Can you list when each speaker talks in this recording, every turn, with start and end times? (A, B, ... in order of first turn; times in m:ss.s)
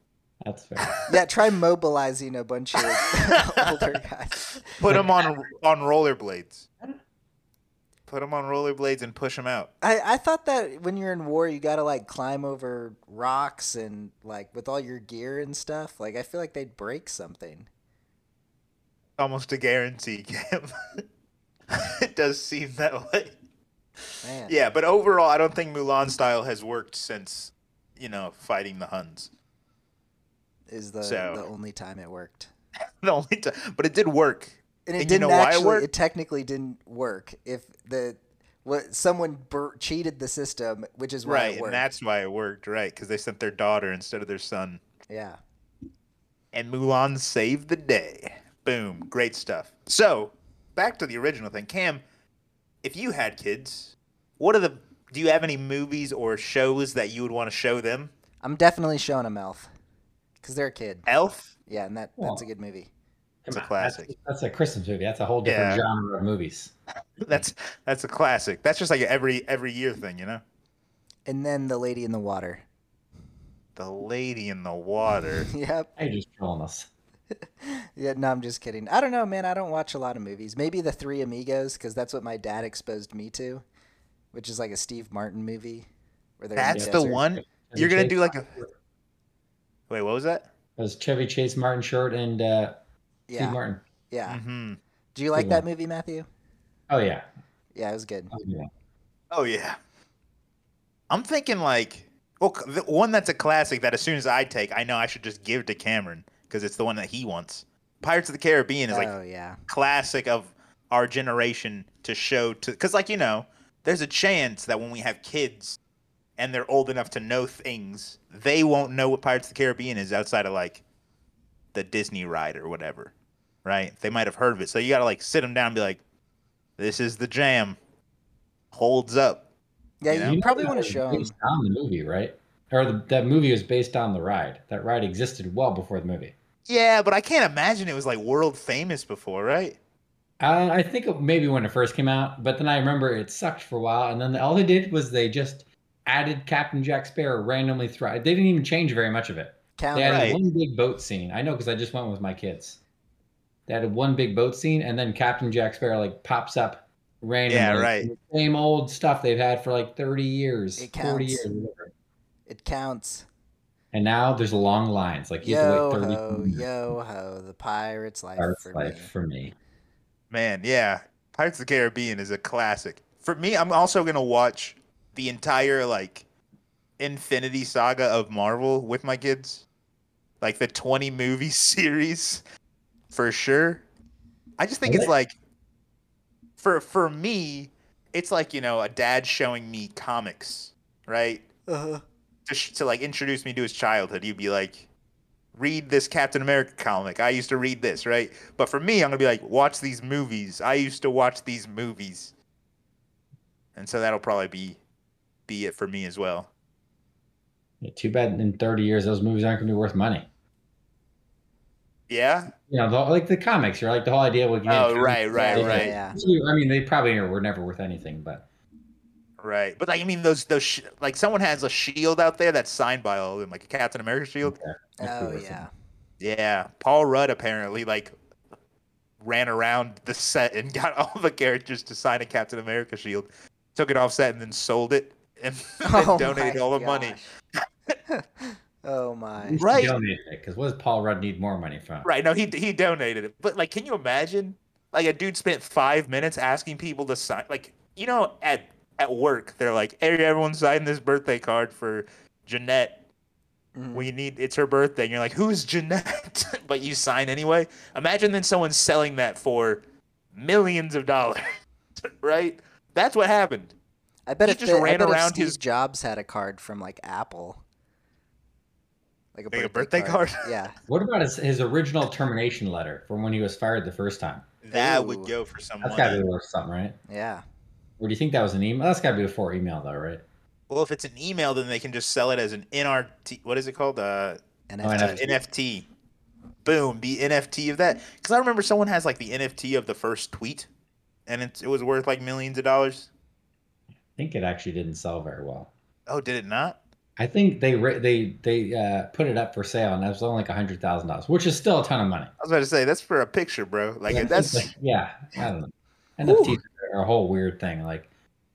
0:00.4-0:01.0 A
0:00.8-0:01.1 B
0:01.1-0:04.4 C
0:04.7-0:06.7 B
0:08.1-0:09.7 B
0:09.8-0:17.7 C
0:19.2-0:20.7 B
0:21.7-0:23.3 B
0:24.2-0:24.6 C
0:24.5-0:29.3 B
0:30.7-0:32.5 C
0:31.0-0:31.4 B
0:33.0-0:35.8 B
0:34.9-0:41.8 C
0:41.2-0:44.8 B
0:45.1-0:45.4 C
0:46.5-0:52.0 B
0:52.8-0:58.1 B
0:58.4-0:59.7 C
1:00.4-1:01.1 C
1:01.1-1:01.5 B
1:01.7-1:02.9 C
1:02.2-1:02.4 A
1:03.4-1:06.7 A
1:03.5-1:04.1 B
1:05.4-1:05.8 B
1:07.2-1:10.4 B
1:11.3-1:12.6 C
1:13.8-1:15.5 B
1:15.5-1:15.9 C
1:16.0-1:16.9 A
1:17.6-1:23.6 C
1:24.3-1:25.9 C
1:26.4-1:27.2 C
1:26.6-1:28.5 B
1:26.7-1:28.7 A
1:29.9-1:30.5 B
1:30.8-1:32.8 A
1:33.3-1:33.6 C
1:33.4-1:33.8 A
1:34.1-1:34.4 C
1:34.3-1:34.8 B
1:35.1-1:36.3 C
1:35.3-1:35.6 A
1:36.9-1:37.2 A
1:37.7-1:38.3 C
1:38.3-1:38.7 A
1:39.3-1:39.8 B
1:41.1-1:49.1 B
1:48.9-1:49.6 C
1:49.7-1:55.8 B
1:56.4-2:00.8 B
2:01.7-2:03.1 B
2:03.6-2:06.0 B
2:06.8-2:07.8 B
2:08.7-2:09.4 B
2:10.0-2:11.3 C
2:10.1-2:10.4 B
2:10.2-2:16.3 A
2:16.7-2:19.8 B
2:20.4-2:32.8 A
2:29.8-2:30.4 C
2:30.1-2:30.4 B
2:33.7-2:41.9 A
2:37.5-2:38.1 B
2:40.8-2:41.4 C
2:42.5-2:43.2 C
2:43.9-2:46.6 A
2:45.4-2:49.1 C
2:48.4-2:49.5 A
2:50.3-2:56.2 B
2:57.0-2:59.6 B
3:00.4-3:02.4 B
3:03.1-3:03.8 B
3:04.6-3:05.3 B
3:04.8-3:05.1 A
3:06.6-3:11.4 B
3:11.7-3:12.0 C
3:12.5-3:14.9 B
3:15.5-3:22.3 B
3:23.8-3:24.8 B
3:25.5-3:26.5 B
3:27.8-3:30.3 A
3:32.1-3:32.5 B
3:32.7-3:38.4 A
3:34.6-3:35.9 B
3:35.3-3:36.2 C
3:39.4-3:44.6 B
3:44.4-3:45.7 A
3:45.0-3:45.7 C
3:46.2-3:48.1 B
3:49.2-3:57.2 B
3:55.8-3:57.3 C
3:58.1-3:59.6 C
3:59.4-4:02.1 A
3:59.6-3:59.9 B
4:02.0-4:13.0 B
4:13.8-4:14.0 C
4:13.9-4:19.8 B
4:20.3-4:21.4 B
4:22.0-4:23.7 B
4:24.3-4:27.6 C
4:24.4-4:25.6 B
4:29.3-4:30.7 C
4:29.5-4:30.4 B
4:30.9-4:34.4 A
4:34.6-4:36.2 B
4:34.7-4:35.3 C
4:35.8-4:37.0 A
4:37.1-4:37.4 C
4:38.0-4:40.2 A
4:40.7-4:45.9 B
4:44.7-4:45.4 C
4:44.8-4:45.2 A
4:46.6-4:50.7 B
4:51.3-4:53.1 B
4:54.2-4:55.7 A
4:56.1-4:56.8 B
4:57.2-5:02.3 A
5:02.4-5:04.7 B
5:04.1-5:08.1 A
5:06.2-5:06.6 B